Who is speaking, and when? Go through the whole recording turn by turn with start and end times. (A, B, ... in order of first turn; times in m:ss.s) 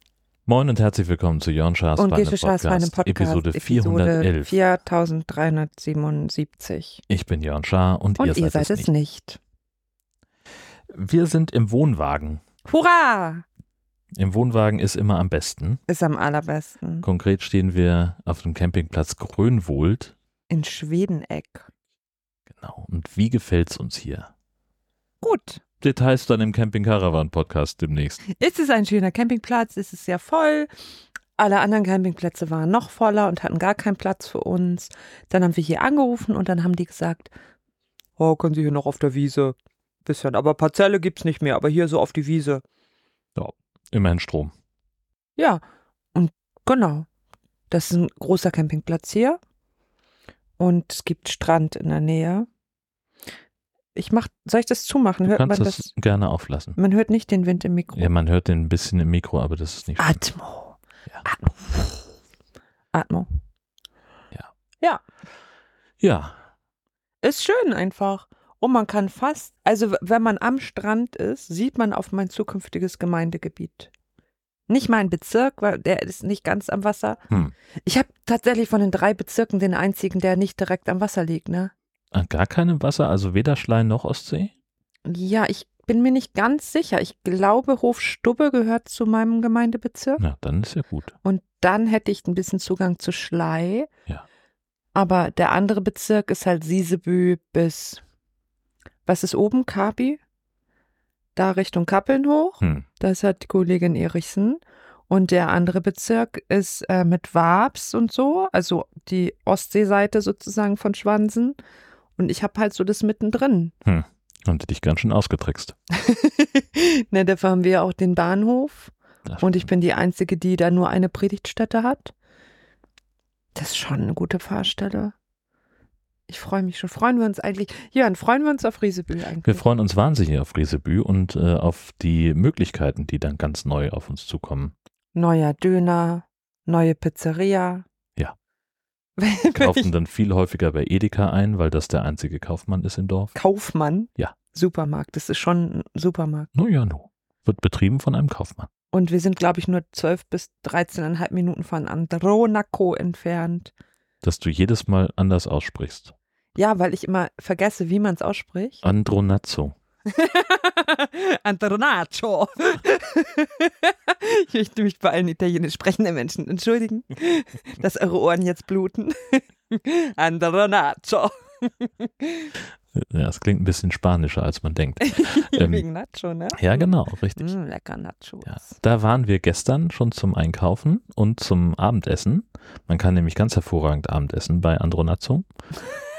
0:00.5-0:04.5 A
0:02.0-0:07.0 B
0:07.1-0:08.9 A
0:08.2-0:09.4 B
0:10.9-0:12.4 A
0:12.6-0:13.4 B
0:14.1-0:15.8 A
0:15.9-0:17.1 B
0:17.0-0:20.1 A
0:20.5-0:21.7 B
0:22.5-0:24.3 A
0:25.2-0:25.6 B
0:25.8-0:28.2 A
0:28.3-0:30.7 B
0:31.4-0:37.3 B
0:38.2-0:42.6 B
0:43.4-0:44.5 A
0:45.4-0:45.6 B
0:46.1-0:47.1 B
0:47.7-0:49.4 B
0:50.6-0:52.5 B
0:54.0-0:55.9 B
0:55.3-0:56.8 A
0:56.8-0:58.1 B
0:58.0-1:00.2 A
1:00.0-1:02.1 B
1:02.9-1:03.3 B
1:06.0-1:06.4 A
1:07.2-1:13.9 B
1:14.7-1:17.2 B
1:17.9-1:21.7 B
1:22.1-1:24.5 A
1:25.1-1:30.2 B
1:30.2-1:31.2 A
1:31.2-1:33.9 B
1:35.0-1:38.0 B
1:39.1-1:40.2 B
1:41.4-1:51.6 B
1:42.6-1:42.9 A
1:52.2-1:53.7 B
1:53.8-1:55.7 A
1:55.9-2:02.1 B
1:59.3-1:59.7 A
2:03.6-2:05.2 B
2:06.3-2:09.6 B
2:09.4-2:14.8 A
2:15.2-2:17.8 B
2:19.2-2:19.9 B
2:19.6-2:23.3 A
2:23.4-2:26.5 B
2:26.6-2:28.7 A
2:28.9-2:33.7 B
2:34.2-2:36.1 A
2:36.6-2:38.8 B
2:38.8-2:39.8 A
2:40.1-2:52.5 B
2:52.9-2:55.8 A
2:55.0-2:58.8 B
2:56.5-2:57.5 A
2:58.4-3:05.4 A